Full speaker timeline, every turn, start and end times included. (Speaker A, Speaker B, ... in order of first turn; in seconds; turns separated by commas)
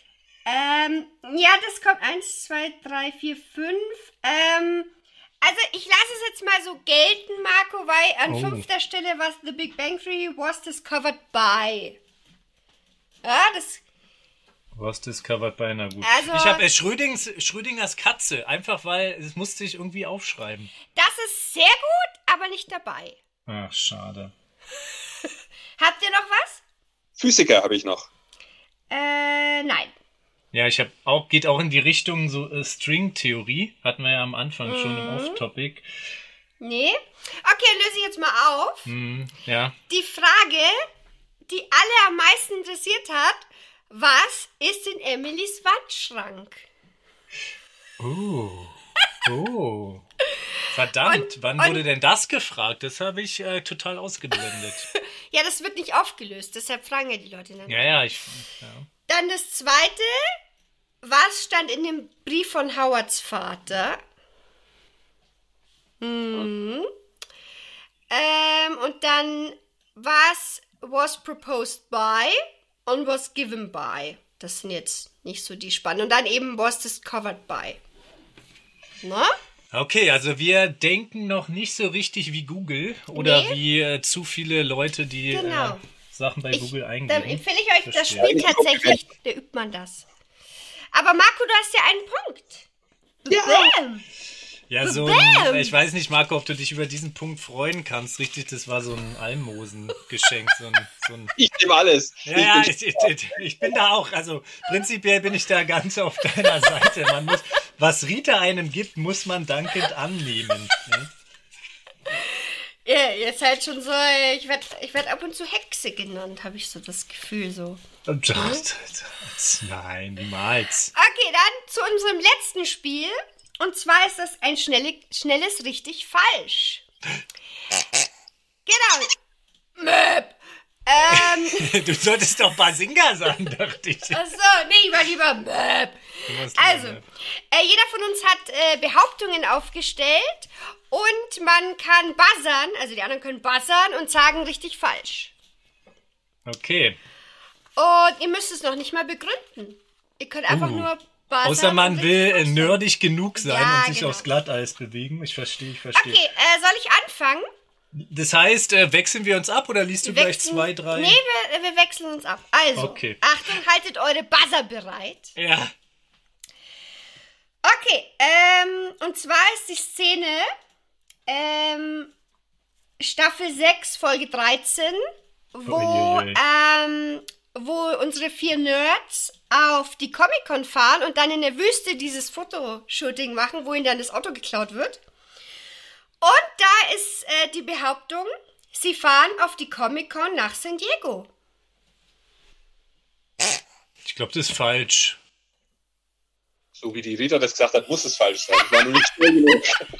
Speaker A: 0.5-12.0, Speaker B: 8.3-8.6, Speaker A: 13.2-13.8, Speaker B: 14.7-20.7, Speaker A: 16.0-16.6, Speaker A: 20.9-23.2, Speaker B: 23.5-24.3, Speaker A: 25.8-26.6, Speaker C: 27.2-28.1, Speaker A: 28.9-29.9, Speaker B: 30.5-35.8, Speaker A: 34.6-35.4, Speaker A: 36.6-38.9, Speaker B: 38.9-39.7, Speaker A: 39.9-40.8, Speaker A: 41.5-46.6, Speaker B: 48.0-50.0, Speaker B: 50.7-54.9, Speaker A: 51.0-51.8, Speaker A: 55.0-57.9, Speaker B: 57.7-58.9, Speaker A: 59.1-60.3, Speaker A: 61.0-64.0, Speaker A: 66.0-66.9, Speaker A: 68.1-77.8, Speaker A: 79.0-79.3, Speaker B: 79.7-88.3, Speaker A: 83.1-83.6, Speaker A: 85.3-85.8, Speaker A: 86.5-90.0, Speaker C: 88.2-89.0, Speaker A: 90.9-92.7, Speaker A: 93.2-94.0, Speaker C: 93.3-93.7, Speaker B: 94.7-101.3, Speaker A: 94.8-95.8, Speaker C: 101.4-103.7, Speaker B: 102.2-111.1, Speaker A: 112.8-117.8, Speaker B: 118.1-120.9, Speaker A: 118.3-118.6, Speaker A: 120.9-126.8, Speaker A: 128.7-129.1, Speaker A: 129.8-130.3, Speaker A: 130.8-131.7, Speaker B: 131.1-134.2, Speaker A: 134.1-145.3, Speaker B: 136.3-137.0, Speaker B: 146.4-147.0, Speaker A: 147.8-152.8, Speaker B: 150.5-150.9, Speaker B: 151.4-156.2, Speaker A: 153.3-154.3, Speaker A: 155.9-157.5, Speaker B: 157.9-161.2, Speaker A: 160.0-165.3, Speaker B: 162.8-163.2, Speaker B: 165.3-165.7, Speaker A: 167.6-170.5, Speaker A: 171.3-172.1, Speaker A: 173.0-175.0, Speaker A: 175.5-185.0, Speaker B: 175.7-176.4, Speaker A: 186.2-191.3, Speaker B: 194.0-195.2, Speaker C: 196.8-199.8